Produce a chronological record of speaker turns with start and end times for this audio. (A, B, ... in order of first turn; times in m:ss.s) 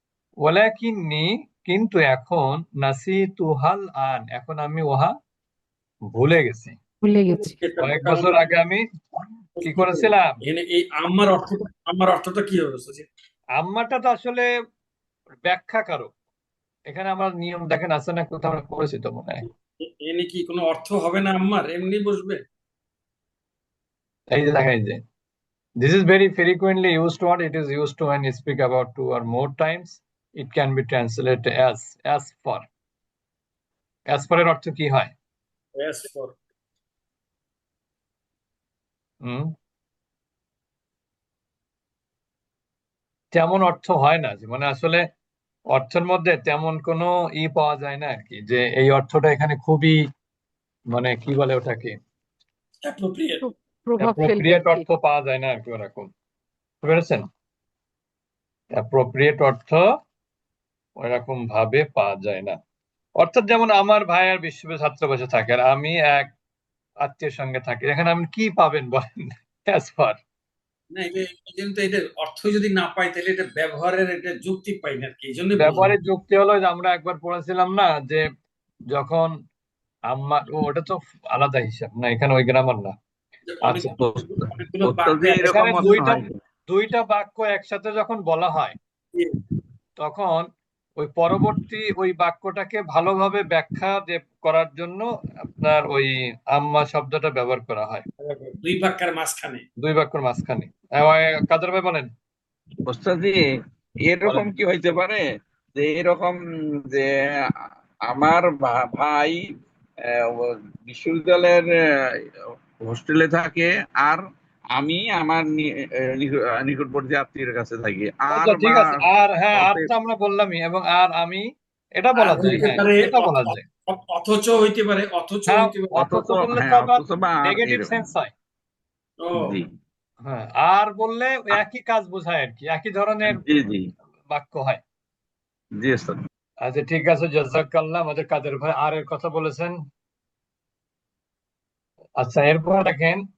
0:00.4-0:05.1 A
0:06.1-0:06.7 A
0:07.0-0:07.6 B
0:07.4-0:08.5 C
0:07.8-0:08.8 A
0:09.6-0:13.1 C
0:09.6-0:10.2 A
0:13.6-0:14.5 A
0:15.4-0:16.1 A
0:16.9-0:19.4 A
0:19.9-0:22.4 C
0:24.3-0:25.0 A
0:25.8-0:32.7 A
0:34.1-0:35.1 A
0:35.8-0:36.4 C
0:39.2-0:39.5 A
0:43.3-0:45.0 A
0:45.7-0:50.0 A
0:50.9-0:51.9 A
0:52.8-0:53.4 C
0:53.4-0:54.8 B
0:54.0-0:56.1 A
0:56.8-0:57.2 A
0:58.8-0:59.8 A
1:01.0-1:02.6 A
1:03.2-1:06.3 A
1:07.0-1:10.2 A
1:10.9-1:15.9 C
1:15.6-1:18.2 A
1:18.9-1:19.3 A
1:20.1-1:22.9 A
1:23.5-1:26.2 C
1:23.6-1:23.9 A
1:23.9-1:24.2 D
1:24.8-1:26.2 D
1:25.5-1:28.8 A
1:30.0-1:30.4 A
1:31.0-1:38.0 A
1:38.2-1:39.6 C
1:39.8-1:42.1 A
1:42.8-1:43.4 D
1:44.0-1:45.2 D
1:44.2-1:44.5 A
1:45.7-1:47.1 D
1:48.1-1:49.4 D
1:50.3-1:51.7 D
1:52.8-1:54.2 D
1:54.7-1:59.0 D
1:58.3-2:01.4 A
1:59.5-1:59.9 D
2:02.0-2:03.6 A
2:02.2-2:06.0 C
2:05.5-2:08.3 A
2:06.0-2:08.0 D
2:09.2-2:09.5 C
2:09.4-2:09.7 D
2:10.2-2:13.4 A
2:13.3-2:13.8 D
2:14.3-2:14.8 A
2:15.8-2:16.2 D
2:16.6-2:19.7 A
2:22.2-2:23.2 A